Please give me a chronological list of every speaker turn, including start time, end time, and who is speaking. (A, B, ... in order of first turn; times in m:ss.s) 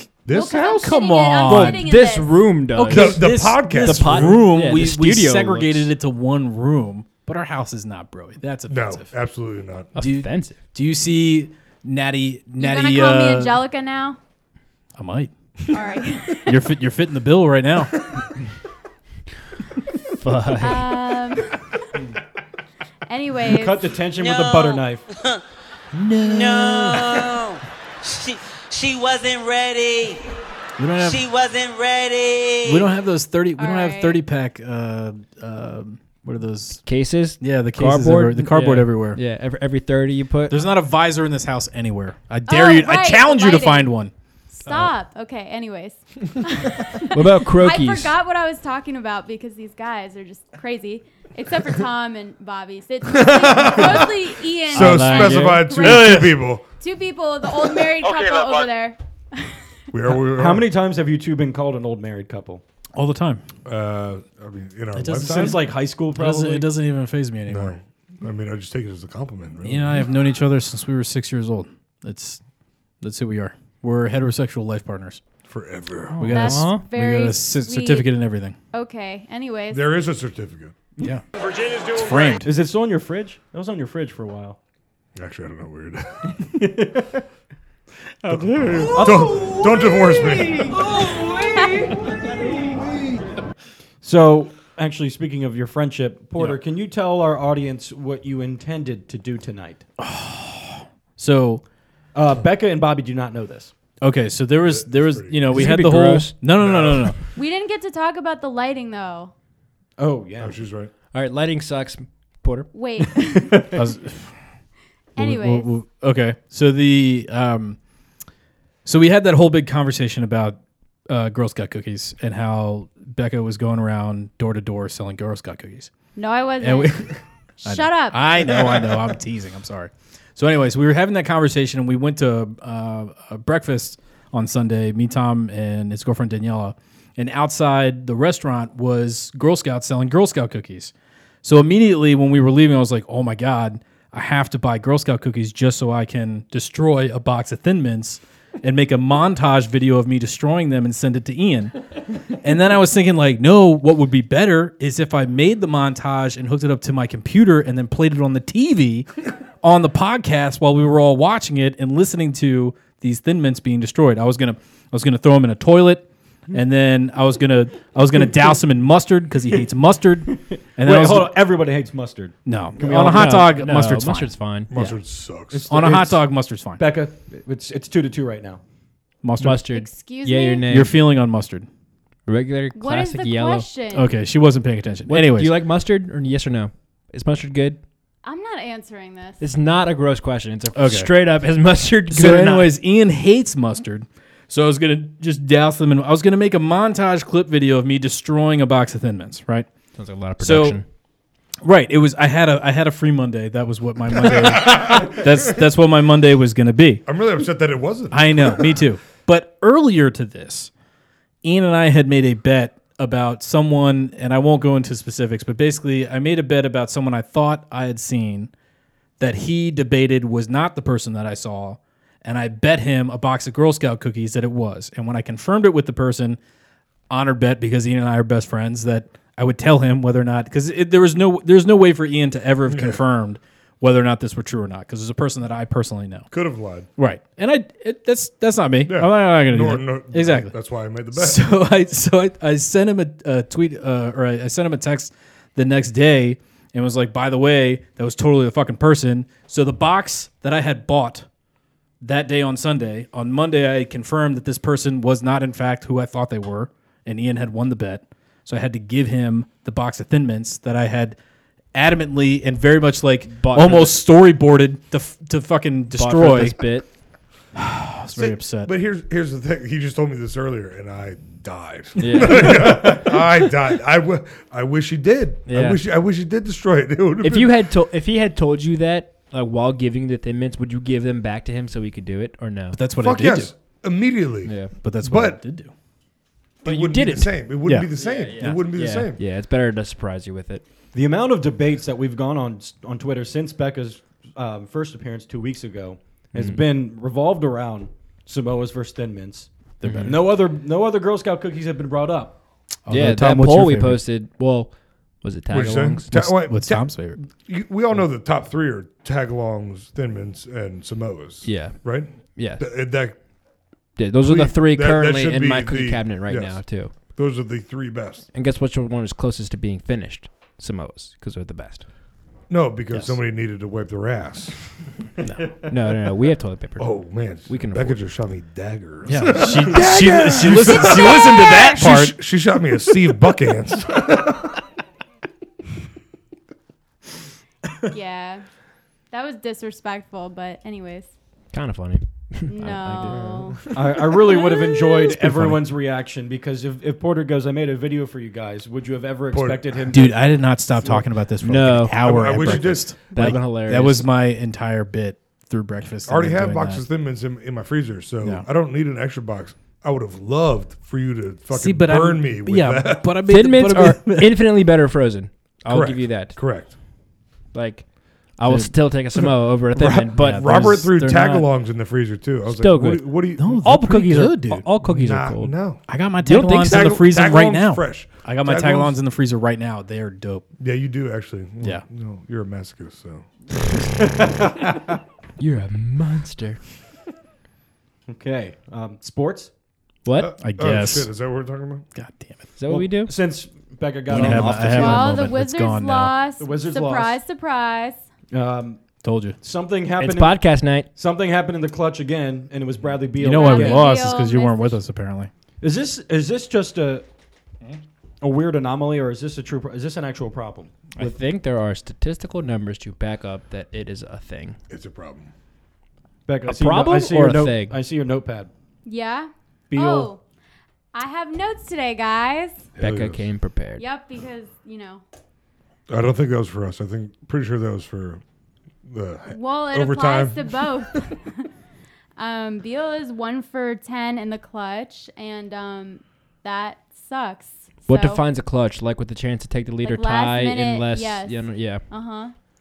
0:00.2-0:00.9 A
0:00.3-0:02.4 B
0:00.6-0:01.8 C
0:01.4-0:05.9 D
0:02.8-0:09.1 C
0:02.8-0:04.5 A
0:08.7-0:09.9 A
0:10.0-0:10.6 D
0:10.0-0:13.6 C
0:12.6-0:14.2 B
0:15.0-0:15.3 C
0:15.7-0:16.6 B
0:16.4-0:18.0 C
0:20.2-0:20.9 D
0:20.6-0:21.6 B
0:23.1-0:23.9 B
0:23.4-0:25.0 E
0:24.1-0:25.4 F
0:25.9-0:27.2 C
0:26.2-0:30.2 F
0:30.8-0:31.2 C
0:31.0-0:32.9 F
0:32.6-0:36.8 C
0:33.6-0:34.2 B
0:36.8-0:40.6 D
0:37.4-0:39.2 C
0:40.5-0:44.1 C
0:42.5-0:43.9 B
0:44.5-0:56.2 B
0:47.1-0:48.1 D
0:53.1-0:56.6 A
0:54.7-0:56.3 C
0:56.8-0:59.6 B
0:59.9-1:00.7 A
1:00.3-1:02.6 E
1:03.0-1:03.4 C
1:03.6-1:05.6 A
1:04.9-1:07.8 C
1:05.3-1:06.7 E
1:07.5-1:10.0 A
1:09.6-1:12.4 C
1:13.0-1:15.2 C
1:15.4-1:16.3 A
1:16.1-1:16.8 D
1:16.2-1:18.6 C
1:16.3-1:18.1 B
1:18.7-1:19.9 B
1:19.7-1:20.7 A
1:21.8-1:22.5 C
1:22.4-1:24.6 E
1:25.2-1:26.2 A
1:26.3-1:27.2 E
1:28.2-1:32.8 E
1:28.3-1:30.6 A
1:32.9-1:33.2 A
1:34.0-1:39.8 E
1:40.0-1:41.6 C
1:42.1-1:43.7 E
1:44.0-1:47.2 C
1:44.7-1:45.4 A
1:45.5-1:46.4 D
1:46.6-1:47.2 A
1:47.3-1:49.3 B
1:50.0-1:50.6 E
1:50.4-1:50.9 A
1:51.1-1:52.7 D
1:52.7-1:53.6 B
1:53.2-1:53.8 E
1:53.7-1:54.4 C
1:55.1-1:55.7 B
1:55.2-1:57.8 C
1:58.8-2:05.9 C
2:06.2-2:07.1 B
2:06.6-2:31.8 C
2:07.6-2:08.2 B
2:32.3-2:51.4 C
2:50.8-2:53.6 E
2:52.4-2:54.9 C
2:52.9-2:54.8 D
2:54.7-2:55.6 A
2:55.5-2:56.2 E
2:55.7-2:56.8 C
2:56.8-2:58.6 E
2:59.2-2:59.7 C
2:59.4-3:01.0 D
2:59.7-3:00.6 B
3:00.7-3:01.7 C
3:02.3-3:03.7 D
3:02.7-3:04.1 B
3:03.9-3:05.5 C
3:05.1-3:07.8 D
3:08.2-3:09.4 B
3:09.4-3:12.7 D
3:10.7-3:11.1 C
3:12.1-3:19.7 C
3:19.9-3:20.8 D
3:20.4-3:20.8 C
3:21.6-3:27.0 C
3:24.6-3:25.2 A
3:27.0-3:28.7 A
3:28.1-3:30.7 C
3:31.4-3:38.5 C
3:39.2-3:46.4 C
3:47.1-3:56.3 C
3:56.3-3:56.9 A
3:57.0-4:00.5 C
3:58.9-4:01.4 A
4:01.1-4:11.2 C
4:12.0-4:21.2 C
4:21.7-4:26.7 C
4:23.4-4:24.0 D
4:25.9-4:26.9 D
4:27.6-4:28.7 C
4:28.1-4:37.5 A
4:32.0-4:33.1 D
4:35.5-4:35.8 D
4:37.2-4:42.8 D
4:42.7-4:43.5 C
4:43.0-4:45.4 A
4:44.4-4:44.8 D
4:44.8-4:45.7 C
4:46.6-4:49.2 A
4:46.6-4:50.6 D
4:47.6-4:48.6 C
4:50.9-5:02.4 E
4:56.4-4:56.6 D
4:59.8-5:00.2 C
4:59.8-5:00.1 D
5:02.9-5:04.0 C
5:02.9-5:06.1 D
5:05.5-5:13.2 A
5:06.1-5:07.2 C
5:11.4-5:12.7 D
5:14.0-5:16.9 D
5:14.2-5:18.2 A
5:18.3-5:21.8 D
5:22.5-5:24.6 A
5:22.9-5:23.2 C
5:25.7-5:28.0 D
5:26.8-5:34.5 A
5:29.0-5:32.1 C
5:37.9-5:38.4 B
5:39.1-5:41.1 B
5:41.5-5:43.2 D
5:42.5-5:43.6 B
5:43.0-5:43.8 A
5:43.7-5:51.0 E
5:45.1-5:45.6 C
5:49.3-5:49.9 A
5:49.9-5:56.8 C
5:51.4-5:54.1 D
5:52.0-5:53.1 A
5:56.1-6:03.2 A
6:01.5-6:04.3 C
6:03.2-6:06.8 D
6:05.7-6:06.7 A
6:07.5-6:10.9 D
6:08.4-6:08.7 C
6:09.7-6:13.8 A
6:10.2-6:11.5 C
6:12.4-6:15.5 D
6:13.4-6:14.6 C
6:14.8-6:19.0 A
6:15.9-6:20.4 C
6:16.5-6:16.8 D
6:20.6-6:23.2 A
6:24.0-6:24.4 E
6:25.4-6:26.6 D
6:28.1-6:29.5 E
6:30.0-6:30.3 D
6:30.1-6:31.8 A
6:30.4-6:31.1 C
6:31.9-6:32.4 C
6:32.6-6:33.1 D
6:32.7-6:35.1 E
6:34.1-6:36.2 C
6:34.1-6:34.6 D
6:34.6-6:38.0 B
6:36.4-6:37.2 E
6:38.3-6:38.8 E
6:39.0-6:39.4 C
6:39.4-6:43.9 E
6:40.0-6:40.9 D
6:43.2-6:45.3 C
6:43.2-6:44.8 B
6:45.6-6:47.0 E
6:48.2-6:51.2 E
6:51.0-6:54.6 D
6:54.7-6:55.3 A
6:56.3-6:58.5 E
6:56.4-6:57.8 D
6:58.8-7:00.2 B
6:59.7-7:00.1 E
7:00.9-7:02.6 B
7:02.8-7:03.2 A
7:02.8-7:03.8 D
7:03.8-7:05.0 B
7:05.9-7:08.2 A
7:08.8-7:11.1 A
7:09.3-7:11.4 B
7:12.2-7:18.2 B
7:17.9-7:21.8 D
7:19.8-7:22.3 B